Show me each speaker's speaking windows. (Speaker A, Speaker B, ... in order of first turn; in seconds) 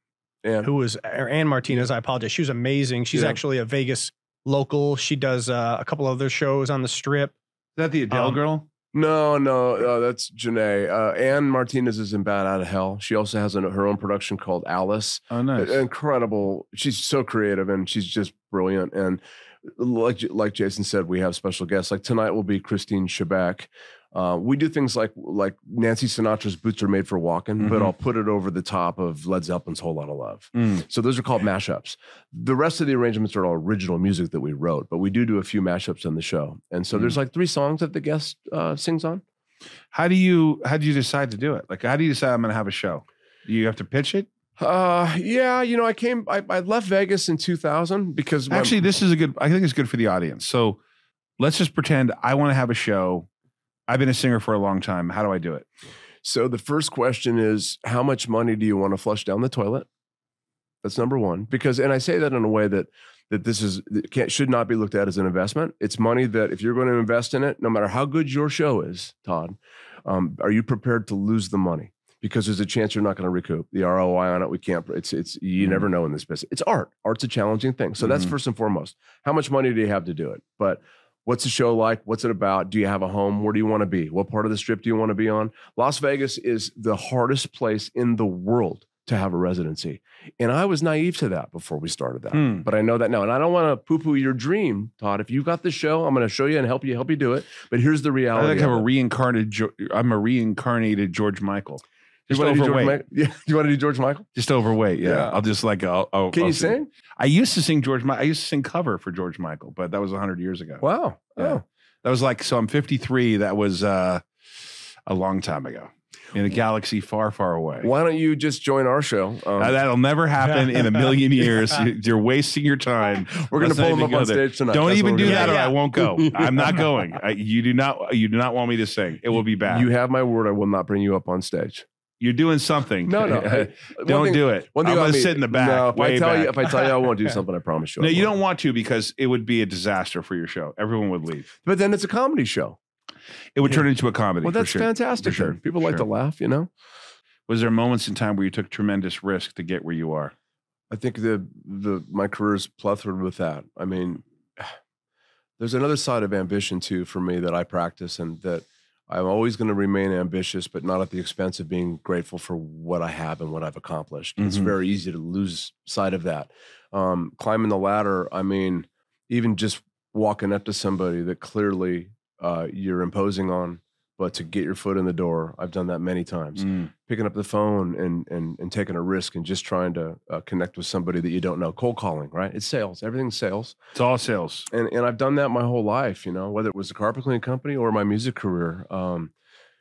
Speaker A: 0.4-0.7, 3.1-3.4, 8.9-39.2, 44.6-48.8, 56.2-59.9, 60.8-98.9, 102.3-104.2, 105.0-105.4, 106.3-106.9, 110.8-111.6, 117.8-119.8, 123.3-127.0, 129.7-131.8, 133.1-138.3, 141.6-142.8, 144.4-146.7, 150.9-154.7, 155.6-183.8, 184.7-189.3
Speaker B: 0.6-7.3, 8.1-8.4, 125.2-125.8
Speaker C: 7.8-8.7, 15.3-15.8, 27.6-27.9, 30.6-30.8, 39.9-44.3, 48.5-50.8, 51.4-53.3, 53.9-55.7, 78.0-78.3, 92.3-92.7, 98.3-103.0, 104.3-110.8, 111.4-114.2, 115.1-117.9, 119.6-129.9, 132.2-136.9, 138.0-141.5, 143.6-146.1, 147.5-150.3, 164.4-164.7, 176.6-176.9, 183.9-184.7